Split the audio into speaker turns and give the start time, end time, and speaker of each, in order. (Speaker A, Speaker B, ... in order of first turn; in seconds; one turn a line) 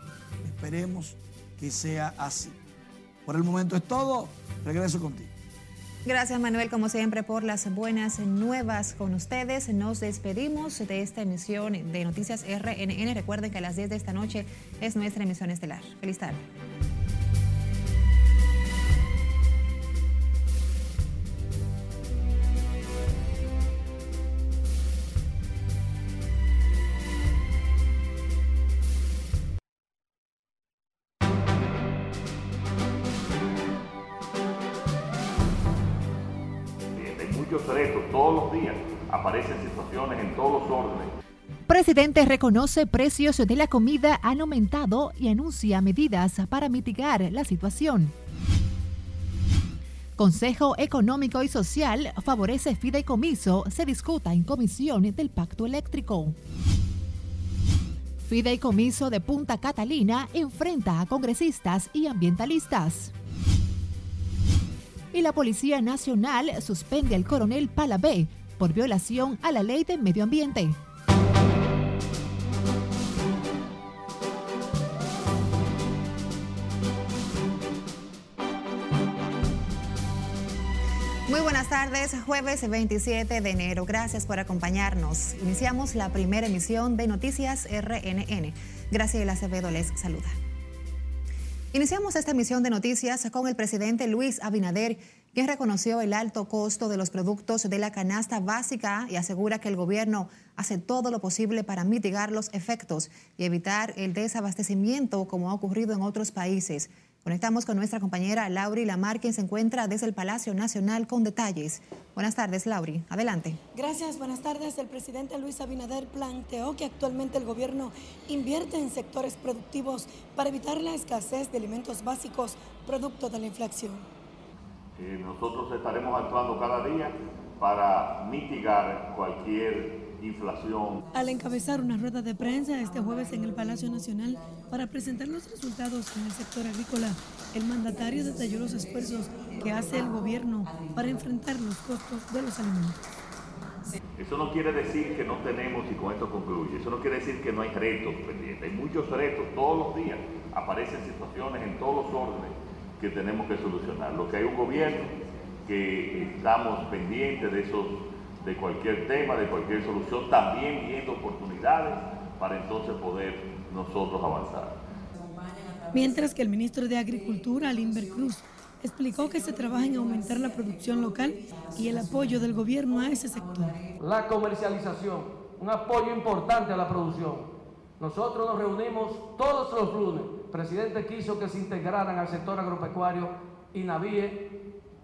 Speaker A: 0.4-2.5
Speaker A: 3.2-5.3
Speaker B: 6.0-16.4
Speaker C: 36.9-41.1
Speaker D: 41.7-48.1
Speaker D: 50.2-56.4
Speaker D: 58.2-63.1
Speaker D: 65.1-70.8
Speaker B: 81.3-90.3
Speaker B: 91.7-113.6
Speaker E: 113.7-124.0
Speaker C: 125.0-131.0
Speaker E: 131.1-143.0
Speaker C: 144.2-155.1
Speaker C: 155.7-164.8
Speaker E: 165.9-173.8
Speaker F: 174.0-177.5
Speaker F: 178.0-184.4